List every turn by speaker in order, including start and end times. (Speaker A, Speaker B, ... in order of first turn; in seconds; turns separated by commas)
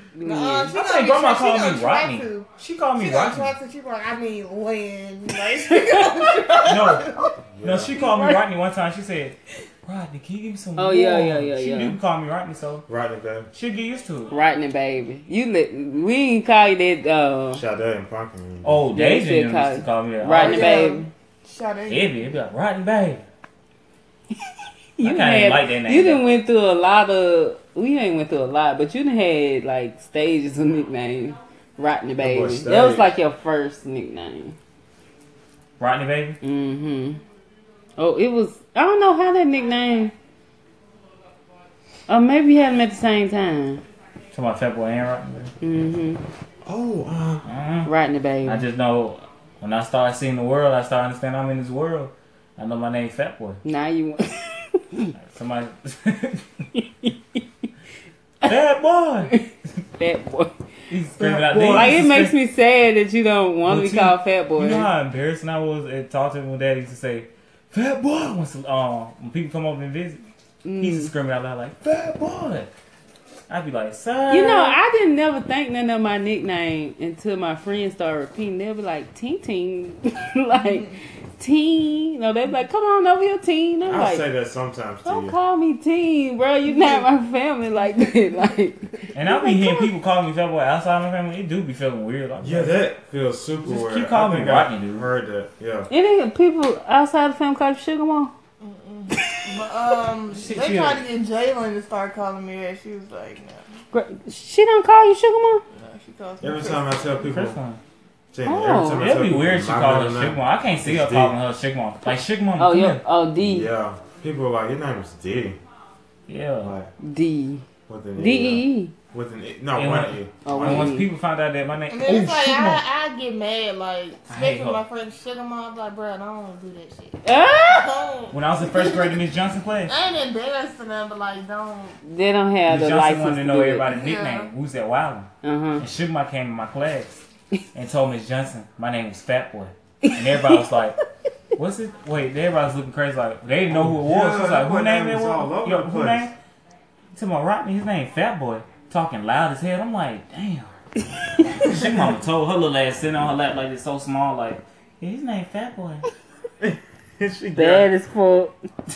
Speaker A: 0.1-0.7, Speaker B: 0.2-7.3, Speaker C: 0.7-3.5, Speaker C: 6.7-7.1, Speaker D: 7.5-7.9, Speaker C: 7.6-12.8, Speaker A: 8.0-8.4, Speaker A: 10.8-12.0, Speaker D: 12.9-13.5, Speaker C: 13.5-14.3, Speaker A: 14.3-17.6, Speaker D: 17.5-18.9, Speaker C: 18.6-21.0, Speaker A: 18.9-21.1, Speaker B: 20.3-22.4, Speaker C: 21.9-23.2, Speaker A: 25.0-34.5, Speaker C: 25.0-26.2, Speaker D: 32.2-33.1, Speaker C: 35.8-36.4, Speaker A: 36.4-37.2, Speaker A: 38.0-40.1, Speaker A: 42.1-43.8, Speaker C: 44.3-45.5, Speaker A: 45.6-46.2, Speaker D: 46.6-47.4, Speaker C: 47.5-47.9, Speaker A: 47.8-48.6, Speaker C: 48.4-53.6, Speaker A: 53.6-55.1, Speaker C: 55.1-56.6, Speaker A: 56.7-57.4, Speaker C: 58.4-59.3, Speaker A: 60.0-60.5, Speaker C: 60.9-62.4, Speaker B: 61.2-61.9, Speaker A: 61.7-64.9, Speaker C: 63.6-70.2, Speaker A: 70.6-71.1, Speaker C: 70.8-72.7, Speaker C: 73.5-74.8, Speaker A: 74.3-84.3, Speaker D: 83.8-85.4, Speaker A: 85.0-89.9, Speaker B: 86.7-87.1, Speaker C: 89.1-92.8, Speaker D: 92.4-95.9, Speaker C: 93.6-95.0, Speaker A: 95.9-98.3, Speaker B: 98.6-103.7, Speaker A: 99.1-99.4, Speaker C: 100.3-101.0, Speaker A: 103.9-105.6, Speaker B: 105.7-107.3, Speaker D: 106.4-107.6, Speaker C: 107.2-107.8, Speaker D: 108.3-111.3, Speaker A: 108.4-109.1, Speaker C: 109.0-113.0, Speaker A: 112.6-113.7, Speaker D: 113.4-115.6, Speaker C: 116.3-116.7, Speaker D: 116.6-116.9, Speaker A: 117.0-117.6, Speaker D: 117.9-120.9, Speaker A: 118.2-118.9, Speaker C: 119.7-122.8, Speaker A: 120.4-121.1, Speaker B: 121.9-129.2, Speaker C: 124.3-124.8, Speaker A: 127.2-127.9, Speaker C: 128.3-129.9, Speaker B: 129.9-132.0, Speaker A: 132.0-133.9, Speaker C: 132.7-141.0, Speaker B: 133.9-134.5, Speaker A: 135.4-135.8, Speaker A: 140.0-140.6, Speaker C: 141.6-146.3, Speaker D: 143.7-146.3, Speaker C: 147.1-150.7, Speaker C: 151.4-156.1, Speaker D: 156.6-157.8, Speaker A: 157.5-158.5